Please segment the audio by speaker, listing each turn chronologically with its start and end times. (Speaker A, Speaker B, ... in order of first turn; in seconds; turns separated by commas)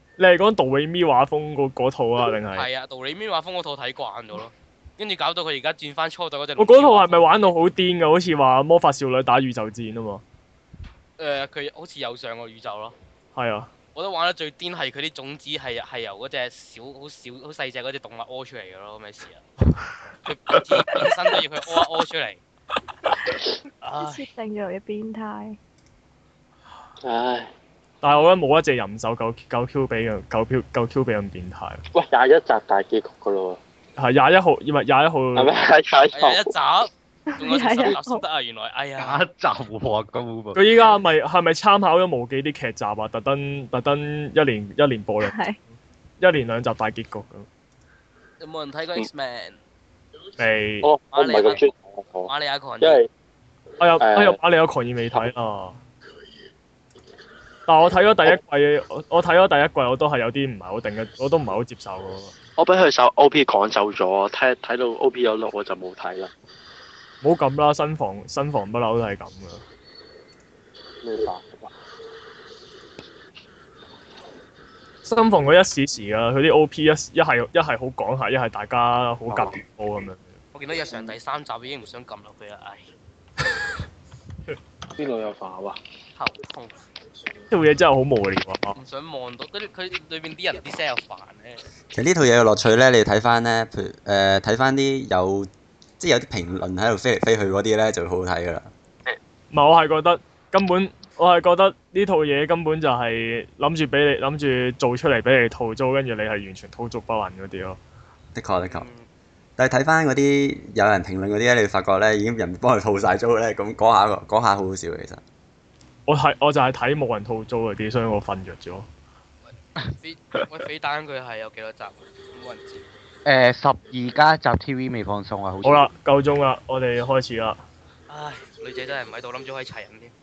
Speaker A: 0.2-2.7, Speaker B: 2.5-7.6, Speaker A: 6.6-10.2, Speaker B: 11.2-13.0, Speaker A: 13.3-13.7, Speaker B: 13.9-19.4, Speaker B: 20.2-22.4, Speaker B: 23.8-24.3, Speaker C: 24.0-25.6, Speaker D: 27.0-27.5, Speaker A: 28.0-31.8, Speaker D: 31.9-33.6, Speaker A: 34.0-35.5, Speaker D: 35.4-36.5, Speaker B: 36.1-39.2, Speaker C: 37.3-38.2, Speaker E: 39.0-40.6, Speaker A: 40.5-45.4, Speaker C: 45.2-45.6, Speaker A: 46.2-47.5, Speaker B: 48.4-49.6, Speaker A: 50.4-50.9, Speaker D: 50.8-53.1, Speaker B: 51.1-51.7, Speaker B: 52.3-53.0, Speaker A: 53.8-55.8, Speaker D: 54.0-54.4, Speaker A: 57.7-62.3, Speaker D: 62.6-66.3, Speaker A: 67.2-69.6, Speaker D: 71.0-71.7, Speaker A: 75.0-80.2, Speaker B: 80.5-82.9, Speaker D: 85.0-85.8, Speaker B: 86.2-86.8, Speaker A: 87.5-88.8, Speaker B: 88.8-91.6, Speaker F: 91.9-95.5, Speaker F: 96.0-98.7, Speaker A: 99.5-107.8, Speaker F: 108.3-108.9, Speaker B: 108.6-109.1, Speaker F: 109.6-115.2, Speaker A: 116.1-118.9, Speaker B: 119.5-122.9, Speaker E: 123.2-125.9, Speaker A: 125.6-127.6, Speaker B: 128.1-130.1